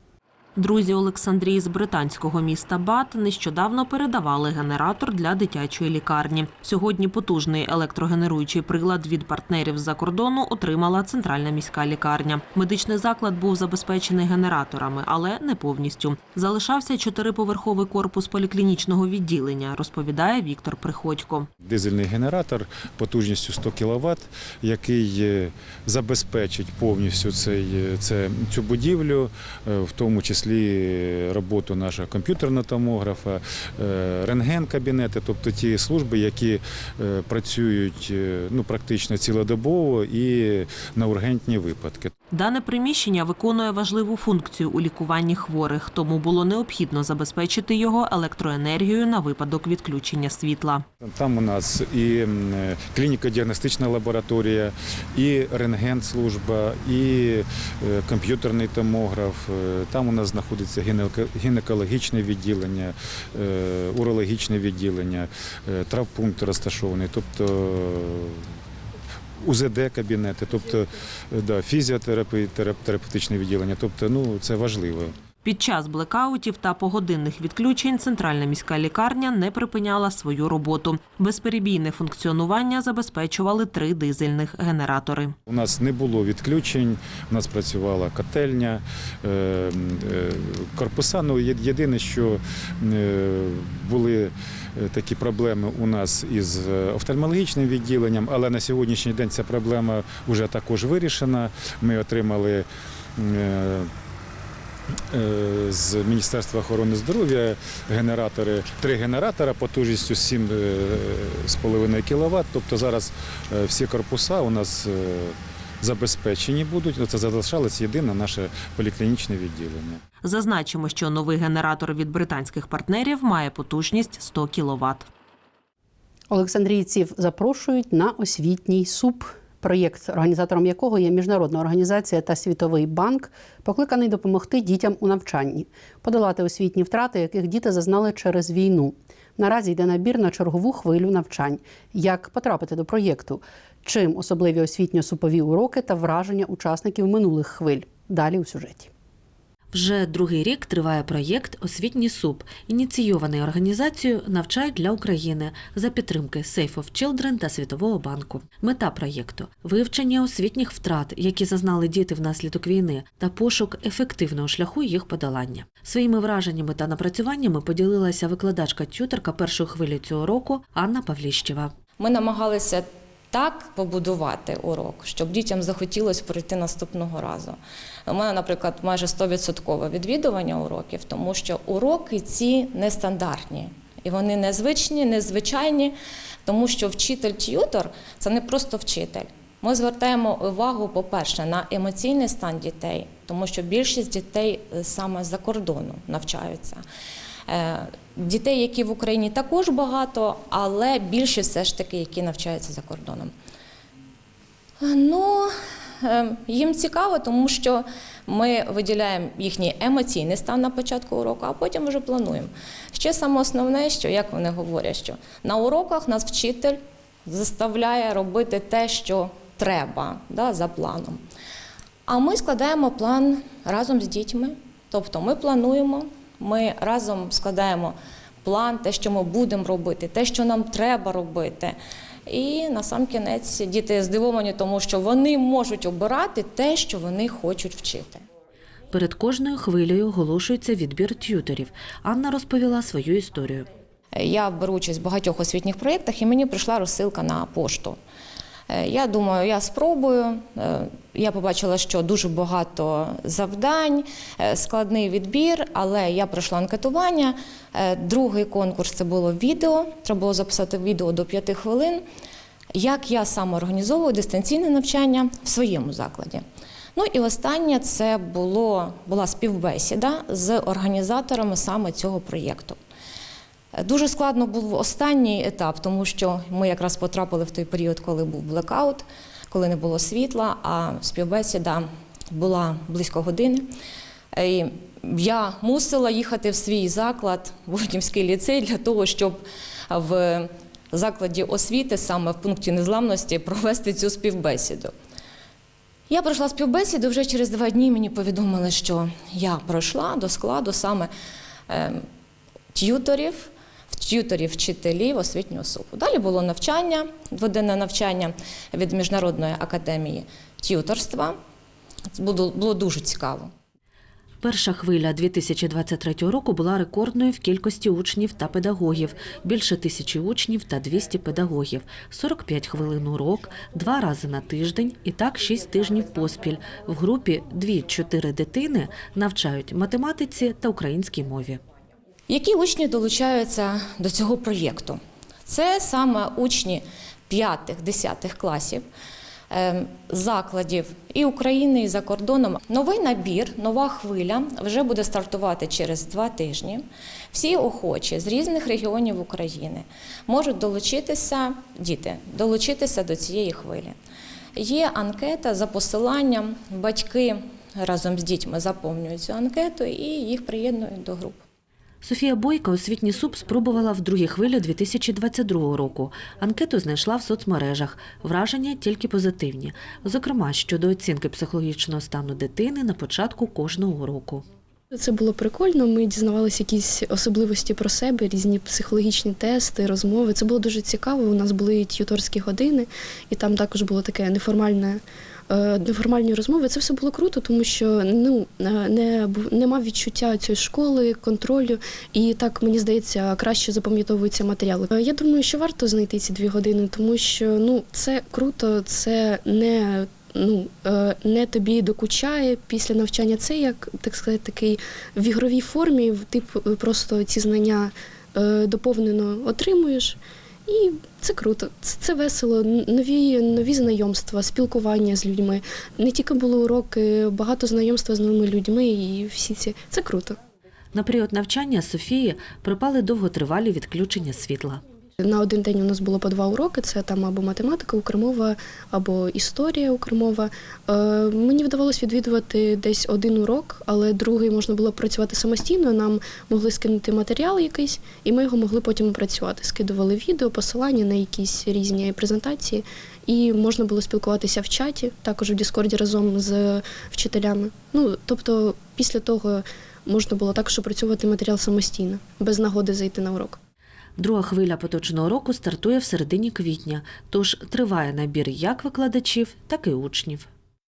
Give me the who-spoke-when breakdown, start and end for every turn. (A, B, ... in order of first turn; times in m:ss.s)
0:00.6-0:21.5 A
0:21.6-0:42.1 B
0:42.3-0:50.8 A
0:51.0-1:08.4 B
1:09.4-1:15.1 B
1:15.4-1:25.3 A
1:25.5-1:42.6 B
1:43.2-1:43.9 B
1:45.1-2:00.0 B
2:00.2-2:05.1 A
2:06.3-2:28.9 C
2:29.7-2:51.7 D
2:52.0-3:05.9 E
3:06.4-3:16.8 E
3:17.5-3:23.3 E
3:24.8-3:25.5 E
3:26.0-3:41.2 E
3:42.0-3:51.8 E
3:52.3-3:58.2 E
3:58.9-4:03.7 D
4:04.2-4:08.0 E
4:08.7-4:22.0 E
4:22.7-4:26.4 E
4:26.9-4:32.8 E
4:33.8-4:43.7 E
4:44.3-4:54.9 E
4:56.1-5:01.1 E
5:01.7-5:02.0 E
5:02.7-5:11.4 E
5:12.1-5:13.5 E
5:14.4-5:31.6 D
5:32.3-5:38.8 E
5:39.5-5:54.0 E
5:54.6-6:01.4 E
6:02.0-6:14.4 D
6:14.9-7:00.4 F
7:00.9-7:04.8 D
7:05.2-7:33.6 F
7:34.2-7:40.5 D